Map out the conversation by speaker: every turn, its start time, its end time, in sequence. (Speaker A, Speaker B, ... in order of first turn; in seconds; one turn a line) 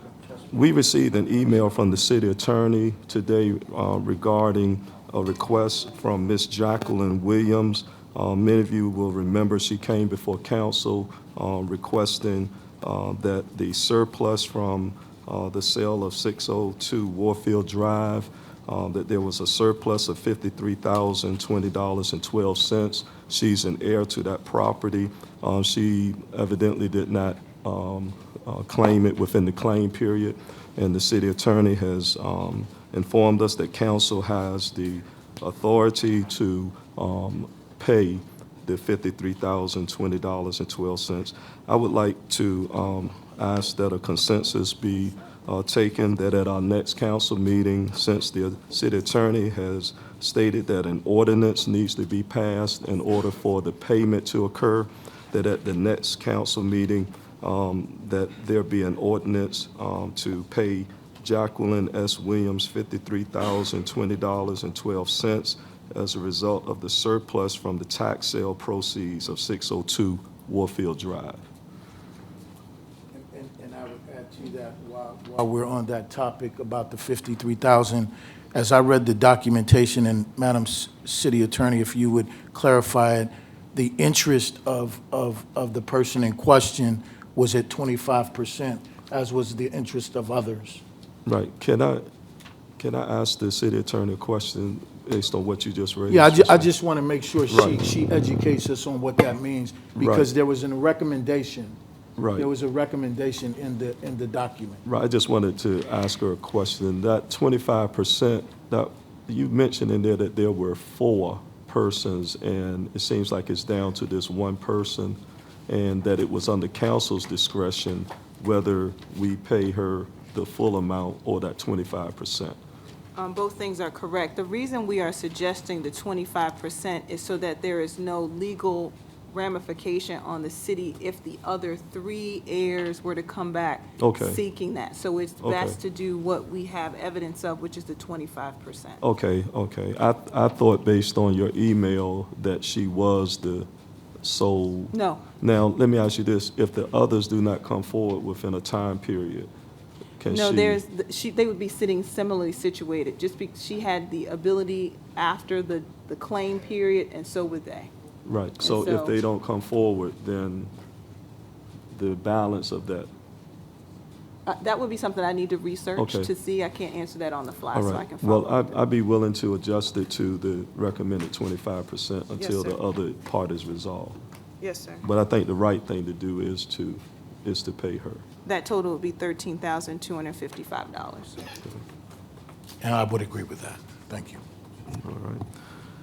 Speaker A: 0.5-71.4
Speaker B: 73.1-90.8
Speaker A: 91.2-92.1
Speaker A: 92.8-96.7
Speaker B: 96.1-101.8
Speaker A: 97.5-98.0
Speaker A: 99.9-100.3
Speaker A: 102.2-102.5
Speaker B: 102.4-104.8
Speaker A: 104.8-122.6
Speaker C: 123.2-139.0
Speaker A: 134.0-134.4
Speaker A: 135.4-135.8
Speaker A: 139.0-143.7
Speaker A: 144.2-149.5
Speaker C: 144.9-145.2
Speaker A: 150.2-150.8
Speaker C: 150.3-157.9
Speaker A: 158.2-160.7
Speaker C: 158.6-159.2
Speaker A: 161.9-163.1
Speaker C: 164.4-168.6
Speaker A: 165.9-166.3
Speaker A: 167.7-174.2
Speaker C: 172.4-172.8
Speaker C: 174.6-175.0
Speaker A: 175.0-178.2
Speaker C: 178.4-181.4
Speaker B: 182.8-184.4
Speaker A: 184.9-185.4